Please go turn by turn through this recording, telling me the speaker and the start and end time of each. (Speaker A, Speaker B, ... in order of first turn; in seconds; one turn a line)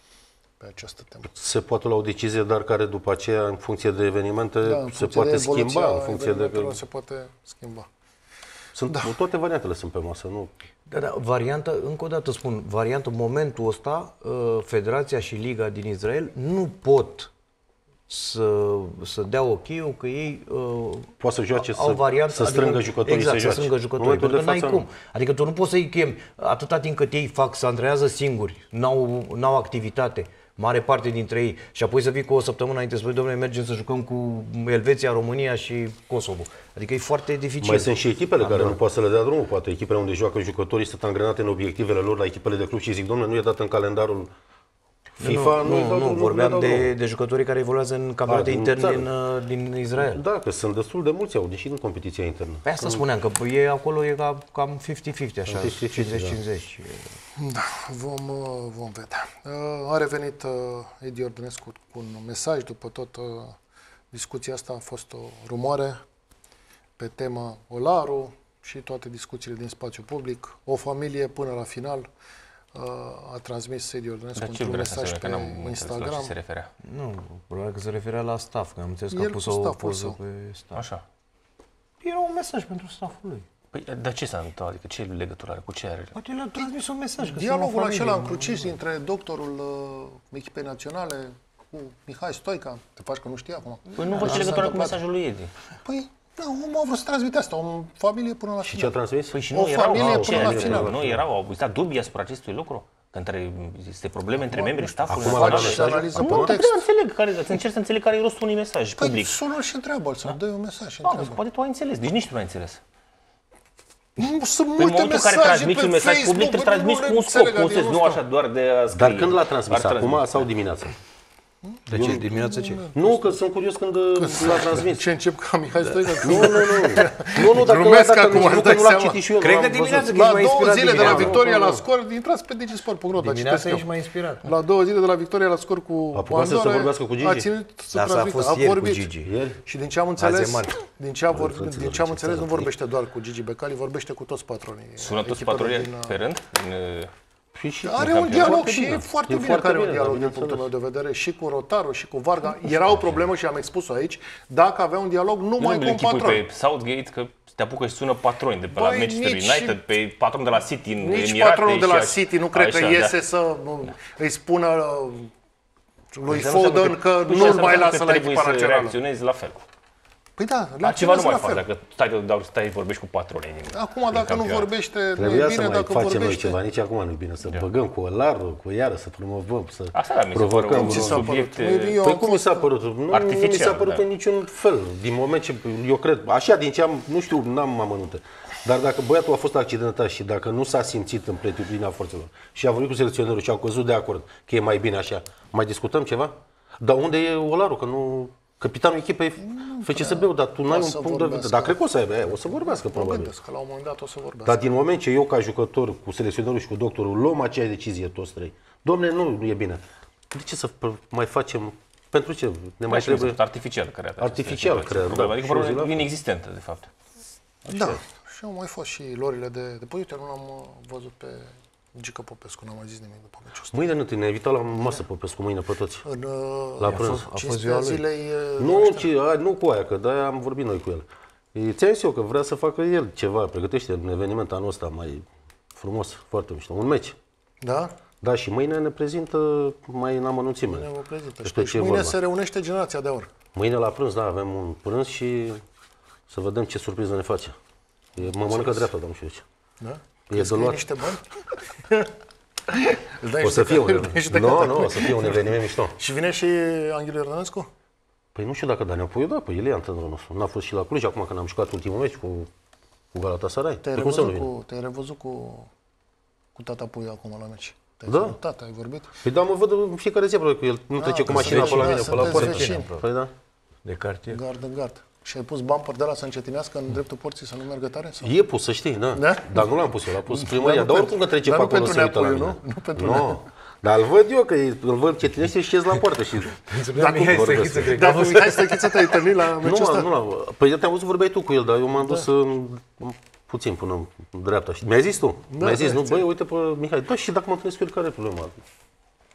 Speaker A: 0.6-1.3
Speaker B: 1.3-6.8
Speaker A: 4.6-7.9
Speaker B: 8.7-10.5
Speaker C: 10.9-17.3
Speaker C: 18.1-38.8
Speaker B: 21.2-24.8
Speaker B: 37.6-44.3
Speaker B: 45.2-46.9
Speaker C: 45.2-50.2
Speaker B: 48.2-49.1
Speaker B: 49.9-53.0
Speaker C: 52.6-57.1
Speaker B: 55.5-56.4
Speaker A: 57.4-63.6
Speaker A: 64.1-66.0
Speaker A: 67.0-72.1
Speaker A: 72.7-76.3
Speaker D: 74.3-76.7
Speaker C: 76.8-80.8
Speaker A: 79.1-80.2
Speaker D: 80.7-81.0
Speaker C: 82.0-83.4
Speaker D: 83.7-86.1
Speaker C: 86.1-88.8
Speaker A: 87.2-95.0
Speaker D: 93.9-95.5
Speaker C: 94.1-94.7
Speaker A: 95.8-99.0
Speaker B: 98.7-99.4
Speaker D: 99.3-109.3
Speaker A: 99.5-101.0
Speaker B: 99.9-101.2
Speaker A: 104.4-106.8
Speaker B: 105.1-106.6
Speaker A: 109.0-111.4
Speaker D: 111.0-112.8
Speaker A: 114.2-118.2
Speaker D: 114.8-120.5
Speaker B: 118.9-120.9
Speaker A: 121.6-123.3
Speaker C: 121.9-122.8
Speaker B: 121.9-122.2
Speaker B: 122.9-125.0
Speaker A: 124.2-129.2
Speaker C: 126.2-126.7
Speaker B: 126.2-130.2
Speaker C: 129.4-131.4
Speaker A: 130.0-133.9
Speaker B: 130.9-131.8
Speaker C: 133.1-134.5
Speaker A: 134.4-139.1
Speaker B: 136.1-137.5
Speaker C: 137.9-139.3
Speaker B: 139.2-139.6
Speaker A: 139.6-146.2
Speaker C: 140.2-140.8
Speaker B: 141.3-142.7
Speaker D: 145.0-147.1
Speaker B: 147.5-150.7
Speaker A: 147.8-156.4
Speaker D: 148.0-148.6
Speaker D: 155.6-163.1
Speaker A: 158.7-159.8
Speaker A: 161.0-165.3
Speaker A: 166.1-169.0
Speaker D: 166.3-169.6
Speaker A: 170.4-171.6
Speaker D: 170.8-174.7
Speaker A: 173.7-176.6
Speaker B: 175.2-181.3
Speaker D: 179.9-182.0
Speaker A: 180.7-182.7
Speaker B: 182.0-203.3
Speaker D: 183.1-184.0
Speaker A: 199.4-201.8
Speaker A: 202.5-204.6
Speaker B: 204.4-213.4
Speaker D: 212.9-216.9
Speaker B: 214.2-216.0
Speaker B: 217.7-218.0
Speaker A: 217.7-223.9
Speaker B: 223.7-226.0
Speaker A: 226.0-229.1
Speaker B: 226.8-227.2
Speaker C: 226.8-228.0
Speaker B: 228.6-235.2
Speaker B: 235.8-237.2
Speaker A: 237.6-237.9
Speaker B: 238.2-240.9
Speaker A: 240.7-243.3
Speaker B: 241.4-242.2
Speaker B: 243.5-245.6
Speaker B: 246.3-247.5
Speaker B: 248.1-249.4
Speaker A: 248.2-248.9
Speaker A: 249.8-252.1
Speaker B: 250.3-250.8
Speaker A: 252.7-257.7
Speaker B: 253.4-255.9
Speaker B: 258.3-262.5
Speaker B: 263.1-264.5
Speaker A: 263.8-265.7
Speaker A: 266.5-269.1
Speaker B: 268.1-268.4
Speaker B: 269.2-273.3
Speaker A: 270.9-272.9
Speaker C: 271.2-273.0
Speaker C: 273.8-274.4
Speaker A: 274.3-278.3
Speaker B: 278.2-286.6
Speaker A: 279.1-279.8
Speaker A: 280.3-283.4
Speaker C: 286.6-289.3
Speaker A: 286.9-290.1
Speaker B: 287.2-288.0
Speaker B: 289.6-298.6
Speaker A: 295.5-296.2